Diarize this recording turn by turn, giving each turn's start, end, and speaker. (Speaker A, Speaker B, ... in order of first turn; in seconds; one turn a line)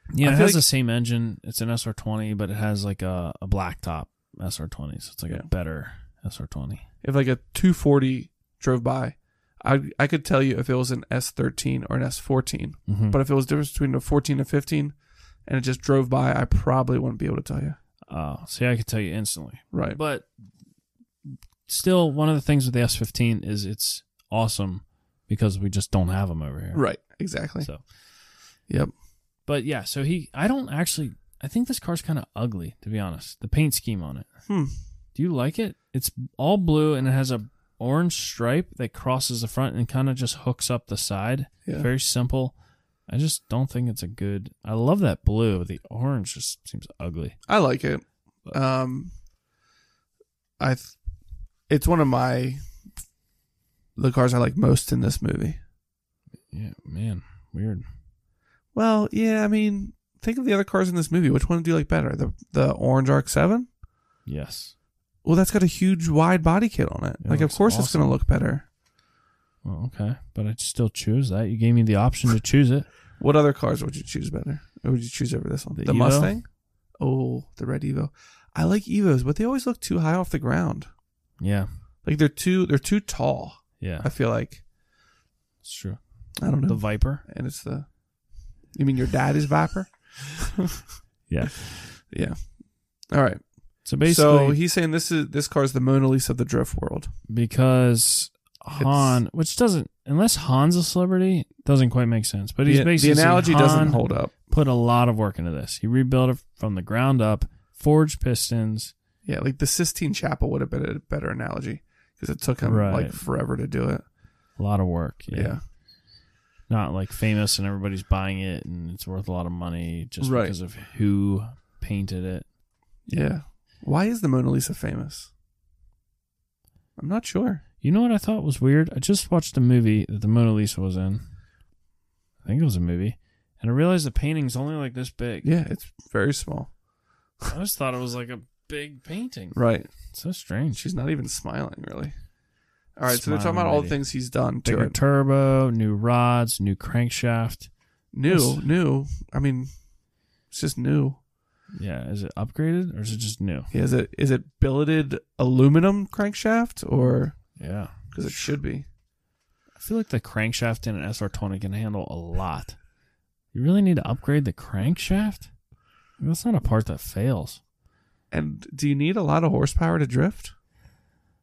Speaker A: 0.1-6.8
Speaker B: 0.2-0.6
Speaker B: 7.0-14.9
Speaker A: 12.9-13.2
Speaker B: 15.4-17.8
Speaker A: 18.1-20.3
Speaker B: 19.7-20.0
Speaker A: 21.7-26.8
Speaker B: 26.7-27.7
Speaker A: 29.4-34.3
Speaker B: 34.5-34.8
Speaker A: 35.1-42.5
Speaker A: 43.1-47.4
Speaker B: 47.5-49.1
Speaker B: 50.6-50.9
Speaker B: 51.7-52.6
Speaker B: 54.0-55.6
Speaker A: 56.5-57.8
Speaker B: 58.7-63.7
Speaker A: 64.2-64.7
Speaker B: 65.2-68.7
Speaker A: 67.2-68.2
Speaker A: 69.6-72.9
Speaker B: 73.2-76.5
Speaker A: 75.7-76.3
Speaker B: 77.0-80.9
Speaker A: 81.4-81.7
Speaker B: 82.0-84.6
Speaker A: 83.8-84.1
Speaker A: 85.6-87.2
Speaker B: 86.4-87.9
Speaker B: 88.7-90.8
Speaker A: 91.3-92.0
Speaker B: 93.1-97.1
Speaker A: 93.8-94.6
Speaker A: 97.3-108.9
Speaker B: 98.8-99.2
Speaker B: 102.7-104.3
Speaker B: 109.2-114.0
Speaker A: 112.6-113.2
Speaker A: 114.6-115.6
Speaker B: 115.3-115.6
Speaker A: 116.7-122.5
Speaker B: 120.2-120.5
Speaker B: 123.1-125.3
Speaker B: 127.0-127.6
Speaker A: 127.8-131.2
Speaker A: 132.4-135.5
Speaker B: 135.4-136.7
Speaker A: 137.5-140.9
Speaker B: 139.5-139.9
Speaker B: 140.8-142.1
Speaker B: 143.0-145.0
Speaker A: 143.0-144.0
Speaker A: 144.6-147.7
Speaker B: 148.1-149.7
Speaker A: 148.2-148.7
Speaker B: 150.5-151.2
Speaker A: 151.7-153.7
Speaker B: 153.7-157.4
Speaker A: 157.6-158.6
Speaker B: 158.1-158.8
Speaker A: 159.8-162.8
Speaker A: 163.5-165.5
Speaker A: 166.2-167.6
Speaker B: 168.3-170.5